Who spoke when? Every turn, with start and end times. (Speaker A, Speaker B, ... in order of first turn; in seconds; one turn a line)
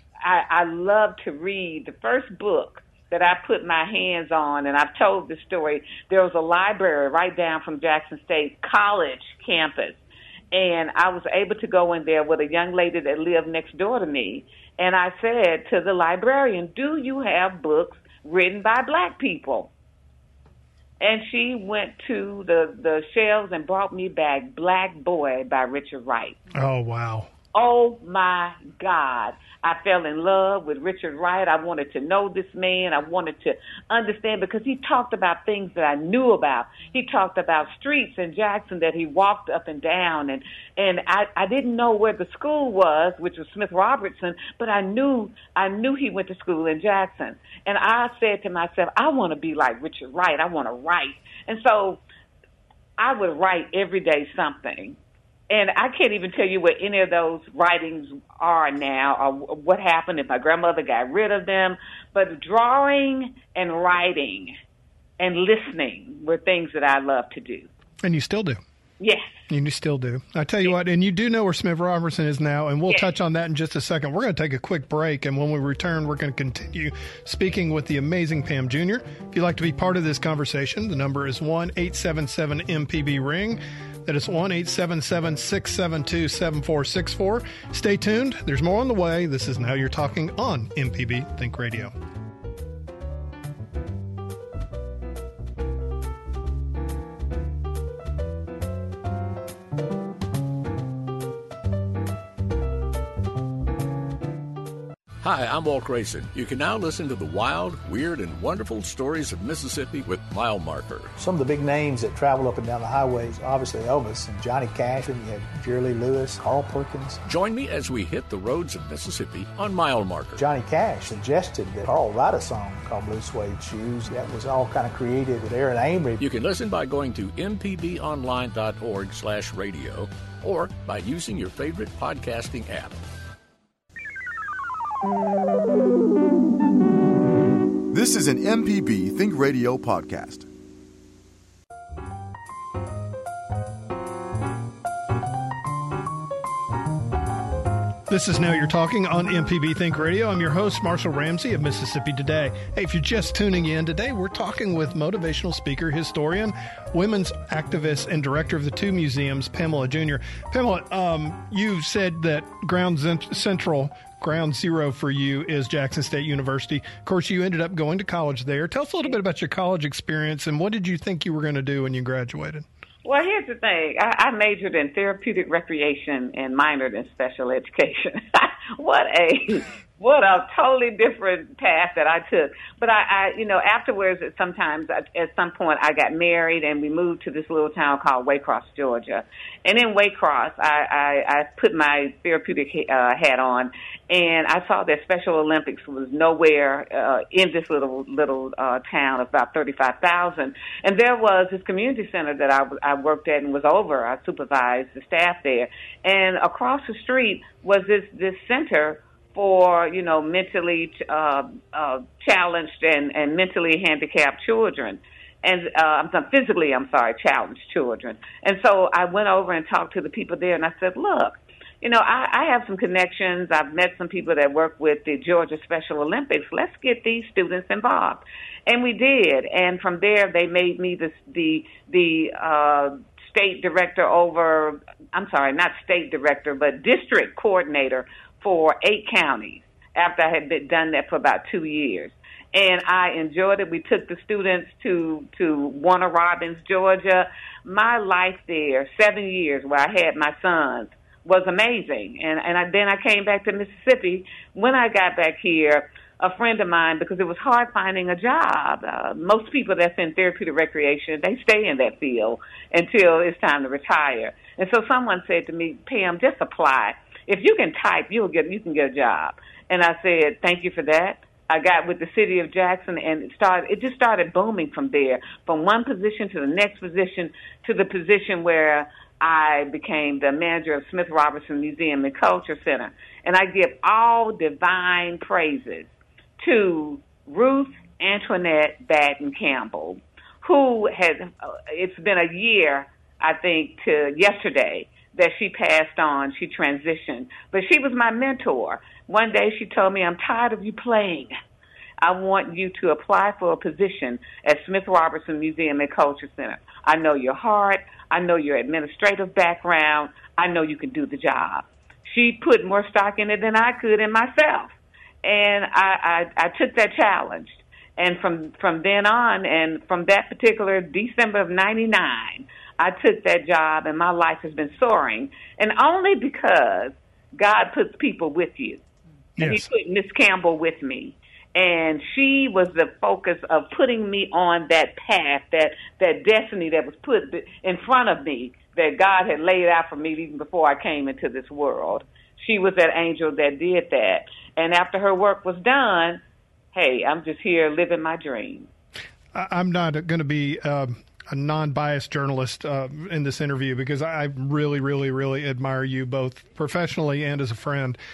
Speaker A: 0.2-10.0
Speaker A: 10.5-19.7
Speaker A: 21.0-26.4
Speaker B: 26.5-27.3
Speaker A: 27.5-52.0
Speaker A: 53.0-55.0
Speaker A: 55.5-64.5
Speaker A: 65.2-67.7
Speaker B: 68.0-68.6
Speaker A: 69.0-69.3
Speaker B: 69.5-91.9
Speaker C: 105.2-111.2
Speaker D: 111.2-117.2
Speaker C: 117.3-120.4
Speaker D: 120.4-126.2
Speaker C: 126.2-133.0
Speaker E: 137.9-140.5
Speaker B: 148.1-172.7
Speaker A: 173.0-301.3
Speaker A: 302.0-328.8
Speaker B: 329.4-329.7
Speaker A: 329.4-346.2
Speaker A: 346.7-348.7
Speaker B: 349.3-358.0